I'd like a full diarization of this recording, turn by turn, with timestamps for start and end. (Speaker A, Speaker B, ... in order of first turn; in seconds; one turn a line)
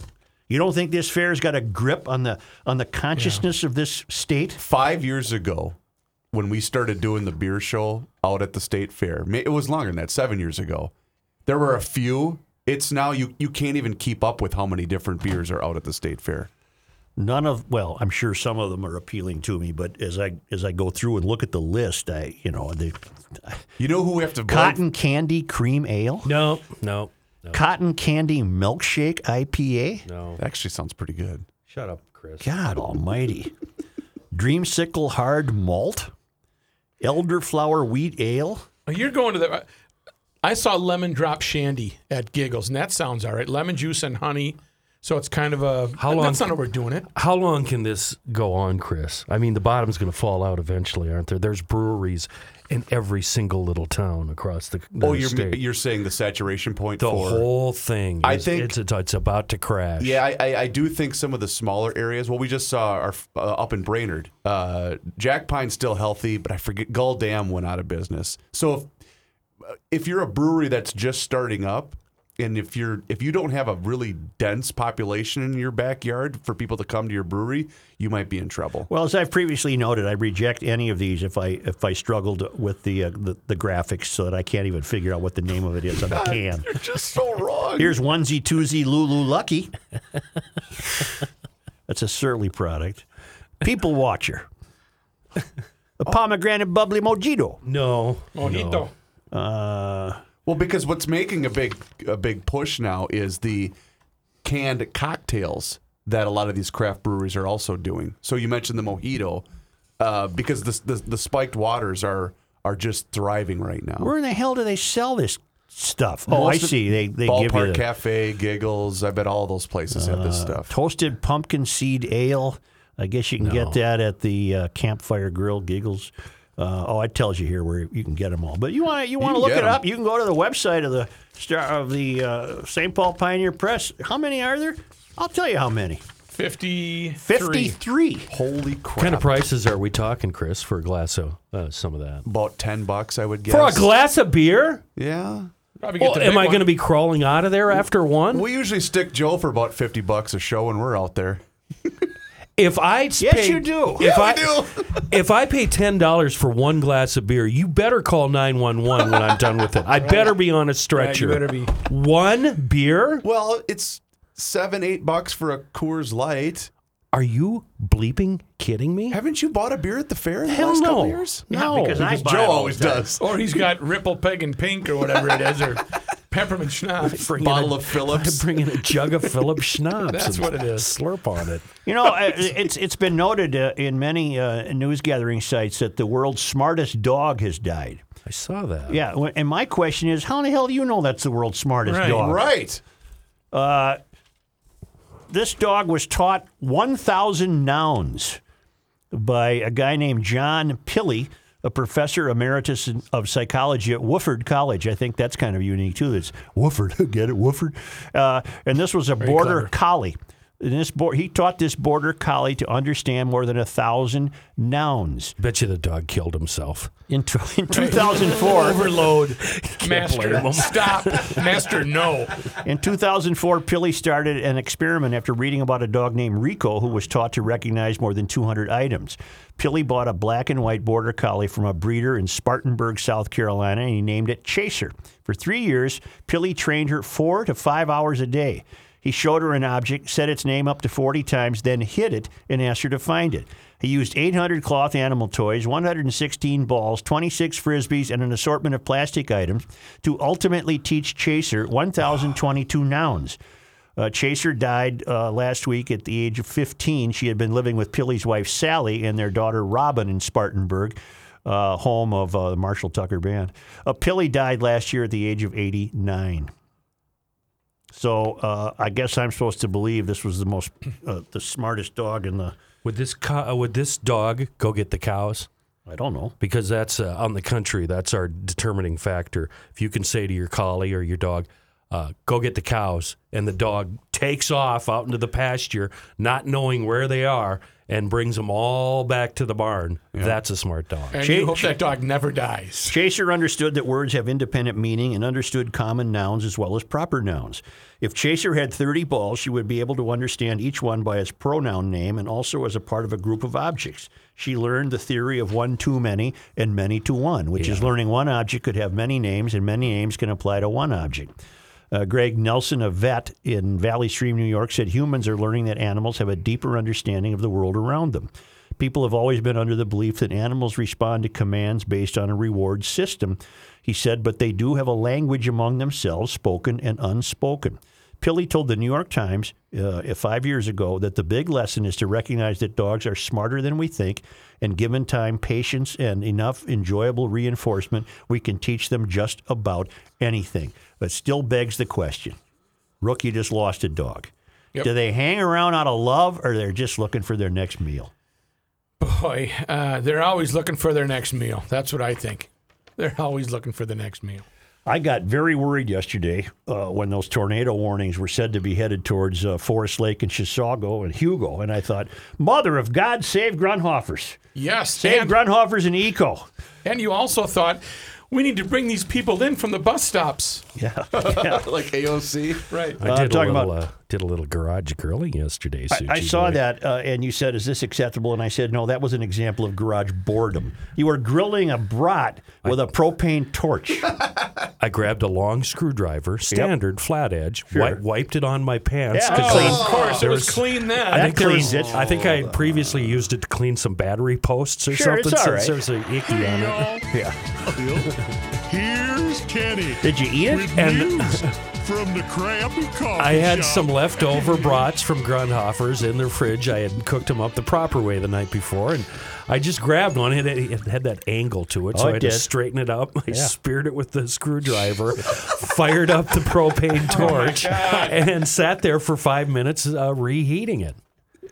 Speaker A: 0.5-4.6
Speaker B: 3.2-3.4
Speaker C: 4.6-5.8
Speaker C: 6.3-10.9
Speaker C: 11.5-16.5
Speaker A: 17.2-23.7
Speaker C: 23.8-24.8
Speaker A: 24.5-26.3
Speaker D: 26.2-27.6
Speaker A: 27.5-30.0
Speaker D: 30.1-30.4
Speaker C: 30.4-31.5
Speaker D: 31.7-32.5
Speaker A: 32.4-33.5
Speaker A: 34.3-36.1
Speaker A: 37.0-38.7
Speaker B: 38.9-39.7
Speaker B: 40.4-47.1
Speaker D: 46.0-46.5
Speaker D: 47.1-55.6
Speaker C: 55.0-57.5
Speaker D: 57.0-60.2
Speaker C: 58.2-58.7
Speaker C: 60.0-68.9
Speaker C: 69.9-78.9
Speaker A: 78.9-86.8
Speaker C: 86.1-88.0
Speaker A: 87.8-89.8
Speaker A: 91.9-93.0
Speaker A: 93.6-94.5
Speaker A: 96.0-97.6
Speaker D: 97.6-98.9
Speaker B: 98.3-98.9
Speaker A: 99.3-100.2
Speaker C: 100.5-103.7
Speaker C: 104.4-109.5
Speaker C: 110.0-114.1
Speaker A: 114.0-117.8
Speaker C: 116.3-120.7
Speaker A: 119.9-136.0
Speaker D: 123.4-123.8
Speaker C: 129.2-129.8
Speaker B: 136.3-137.8
Speaker A: 137.2-138.3
Speaker C: 138.3-139.4
Speaker D: 139.0-142.3
Speaker C: 142.3-143.9
Speaker D: 143.5-144.8
Speaker C: 145.0-145.5
Speaker B: 145.8-146.7
Speaker D: 146.0-148.5
Speaker C: 148.3-152.1
Speaker D: 152.6-163.2
Speaker A: 153.2-154.1
Speaker C: 154.0-155.2
Speaker B: 160.0-160.4
Speaker B: 160.9-161.7
Speaker C: 163.2-166.7
Speaker D: 167.1-169.2
Speaker C: 169.1-171.4
Speaker D: 170.5-172.1
Speaker A: 171.5-173.1
Speaker C: 172.0-173.4
Speaker B: 173.2-177.3
Speaker D: 177.0-181.7
Speaker C: 177.4-178.5
Speaker B: 180.1-180.9
Speaker A: 181.8-188.0
Speaker D: 188.2-189.0
Speaker A: 188.9-192.5
Speaker B: 191.9-192.2
Speaker C: 192.1-192.8
Speaker A: 193.5-194.0
Speaker A: 195.3-198.4
Speaker A: 199.1-215.4
Speaker B: 209.2-209.7
Speaker D: 215.4-216.9
Speaker A: 217.1-218.9
Speaker B: 217.7-222.4
Speaker D: 218.4-221.7
Speaker A: 222.6-253.4
Speaker A: 254.0-266.5
Speaker A: 267.9-272.6
Speaker D: 272.8-275.5
Speaker A: 275.9-276.3
Speaker D: 276.4-291.2
Speaker B: 291.1-293.0
Speaker A: 291.2-291.8
Speaker A: 292.8-311.3
Speaker D: 307.6-307.9
Speaker A: 311.9-342.4
Speaker A: 343.0-348.1
Speaker B: 349.0-354.5
Speaker A: 354.9-364.4
Speaker B: 364.6-365.4
Speaker A: 365.0-366.5
Speaker B: 366.8-370.6
Speaker A: 370.8-371.7
Speaker C: 371.1-372.8
Speaker B: 372.7-373.0
Speaker D: 373.0-376.6
Speaker A: 373.0-373.8
Speaker A: 375.9-384.2
Speaker D: 384.8-397.1
Speaker A: 387.7-388.0
Speaker A: 389.1-389.9
Speaker B: 389.2-391.7
Speaker C: 389.6-390.4
Speaker A: 391.1-392.5
Speaker A: 394.9-395.8
Speaker E: 396.3-397.1
Speaker A: 397.1-397.4
Speaker D: 397.7-398.3
Speaker E: 397.8-404.7
Speaker A: 400.0-400.9
Speaker D: 400.7-401.6
Speaker D: 403.2-421.0
Speaker A: 411.9-412.5
Speaker B: 417.1-418.2